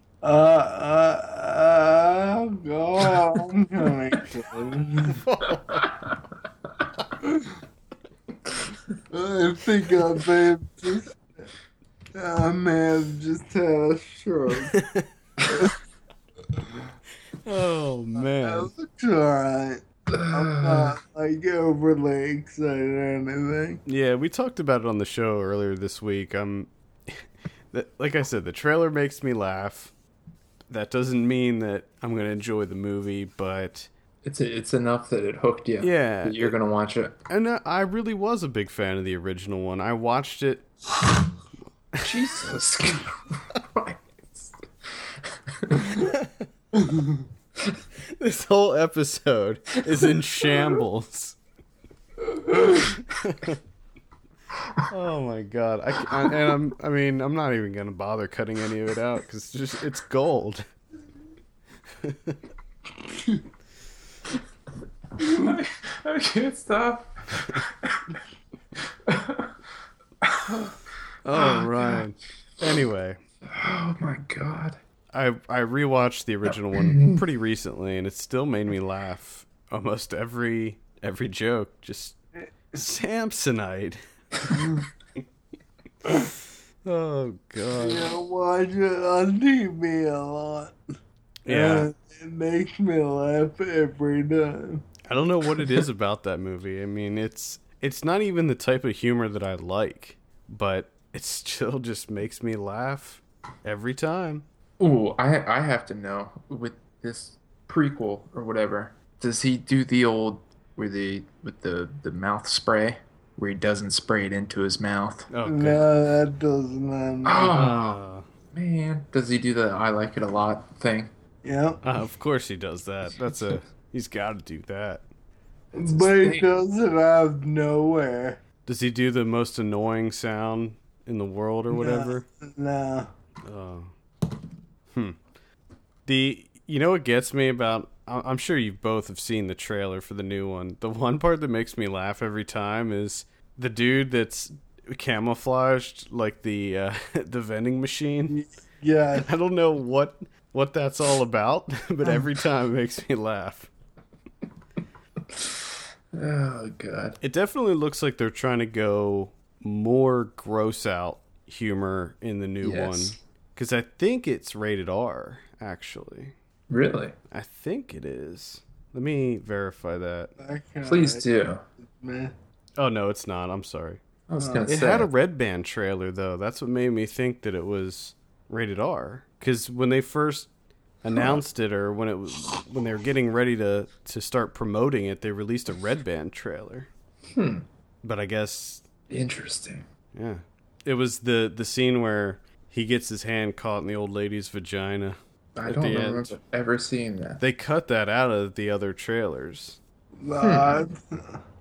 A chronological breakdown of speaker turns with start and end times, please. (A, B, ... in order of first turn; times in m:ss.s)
0:00.2-0:05.2 A
0:05.1-0:05.8 B
0:05.4-0:06.0 C
0:09.1-0:11.2 A
0:12.1-0:14.8 A
0:14.7-0:15.1 B
0:17.4-0:18.7 B
0:18.2-0:23.8 A
0:20.1-0:21.0 C
0:23.8-0:29.9 B
0:30.7-0:33.9 B
0:34.2-0:37.2 C
0:35.8-0:36.5 B
0:37.3-0:40.7 B
0:42.0-0:44.6 C
0:45.5-0:46.0 C
0:45.9-0:46.4 B
0:46.8-0:47.2 A
0:48.0-0:51.4 B
0:52.7-0:53.6 B
0:54.9-1:00.6 B
1:02.0-1:02.4 B
1:05.2-1:08.1 C
1:09.0-1:09.5 C
1:10.2-1:10.8 C
1:11.2-1:13.2 B
1:11.3-1:12.0 C
1:13.4-1:14.8 C
1:15.1-1:22.2 B
1:16.7-1:17.2 C
1:22.7-1:24.0 B
1:26.8-1:28.1 B
1:27.7-1:30.7 A
1:31.4-1:31.9 B
1:31.5-1:34.8 A
1:35.1-1:44.4 B
1:44.8-1:55.3 C
1:55.3-1:55.9 B
1:55.4-1:57.6 A
1:57.2-1:58.0 C
1:57.5-1:58.2 B
1:58.5-2:01.1 C
2:01.4-2:01.8 A
2:01.8-2:05.0 B
2:05.7-2:08.4 A
2:05.8-2:06.5 C
2:08.6-2:12.2 B
2:11.7-2:13.1 A
2:13.4-2:13.9 B
2:14.9-2:15.2 B
2:16.0-2:28.4 B
2:28.3-2:29.3 A
2:29.2-2:33.7 B
2:36.1-2:37.2 C
2:37.2-2:46.3 B
2:42.6-2:43.2 C
2:46.7-2:47.1 C
2:47.3-2:50.3 B
2:50.4-2:51.2 A
2:50.8-2:51.6 C
2:51.8-2:52.3 A
2:52.8-2:54.0 B
2:54.3-2:55.1 C
2:54.4-2:54.7 A
2:54.7-3:00.5 B
3:01.0-3:06.9 B
3:07.3-3:07.6 C
3:08.0-3:08.9 B
3:09.1-3:09.8 C
3:10.1-3:16.3 B
3:15.6-3:17.4 C
3:17.4-3:19.8 B
3:20.2-3:21.4 A
3:20.4-3:20.9 C